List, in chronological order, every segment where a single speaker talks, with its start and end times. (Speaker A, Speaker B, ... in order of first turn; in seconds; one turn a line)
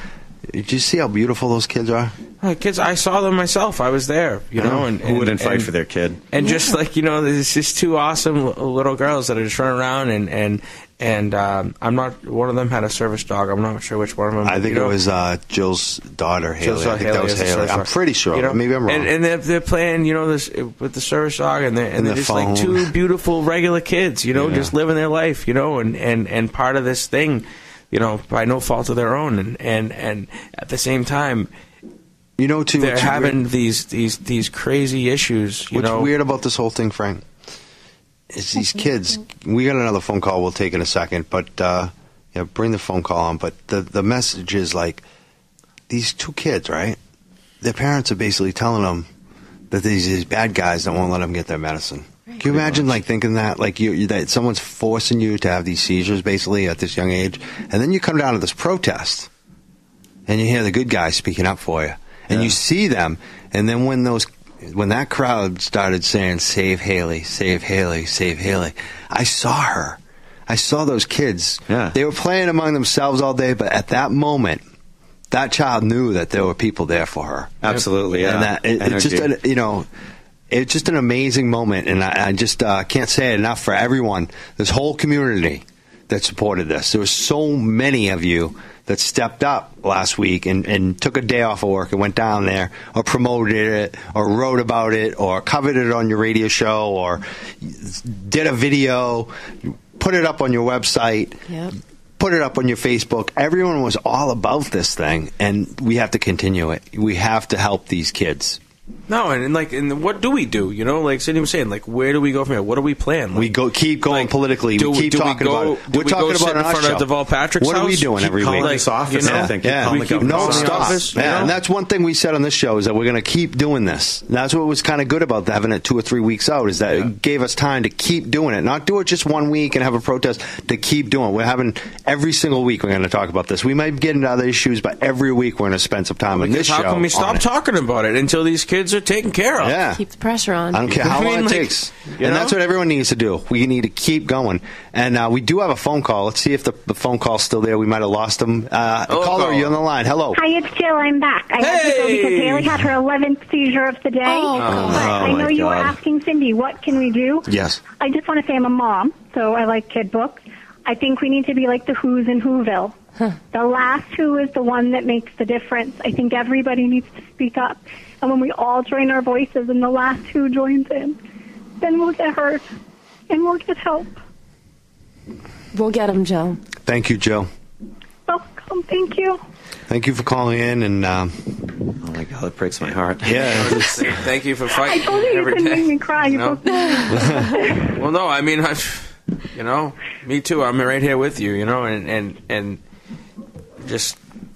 Speaker A: 0.5-2.1
Speaker B: 2.4-5.7
Speaker C: 5.0-6.2
Speaker B: 6.3-14.9
Speaker D: 6.4-6.7
Speaker A: 14.4-19.1
Speaker B: 16.6-31.5
Speaker A: 21.9-22.9
Speaker A: 24.3-24.7
Speaker A: 32.4-33.4
Speaker B: 32.8-36.1
Speaker A: 35.7-37.2
Speaker A: 38.3-45.0
Speaker A: 45.9-47.0
Speaker A: 47.6-49.1
Speaker A: 49.7-59.3
Speaker C: 52.4-53.0
Speaker A: 60.3-74.6
Speaker C: 71.7-71.9
Speaker A: 75.3-79.9
Speaker C: 77.6-79.3
Speaker A: 80.5-101.4
Speaker A: 102.2-108.6
Speaker B: 109.1-113.5
Speaker A: 113.3-117.1
Speaker B: 114.0-121.5
Speaker A: 117.6-137.4
Speaker C: 118.2-121.5
Speaker B: 136.3-139.8
Speaker A: 139.6-140.0
Speaker D: 139.8-141.0
Speaker A: 140.7-150.4
Speaker B: 140.9-142.6
Speaker B: 149.1-149.7
Speaker E: 150.3-157.5
Speaker B: 151.6-152.8
Speaker D: 154.2-155.4
Speaker B: 154.6-155.1
Speaker A: 154.7-155.0
Speaker C: 154.8-155.9
Speaker A: 157.5-157.8
Speaker E: 158.0-162.9
Speaker E: 163.5-171.2
Speaker E: 171.8-172.6
Speaker E: 173.3-174.1
Speaker D: 175.7-176.6
Speaker A: 176.8-177.5
Speaker E: 178.3-179.4
Speaker A: 179.9-181.5
Speaker C: 182.0-184.0
Speaker A: 183.2-184.1
Speaker B: 183.4-186.6
Speaker E: 184.7-187.9
Speaker D: 186.7-187.3
Speaker A: 187.1-187.5
Speaker B: 187.8-192.8
Speaker B: 193.8-194.2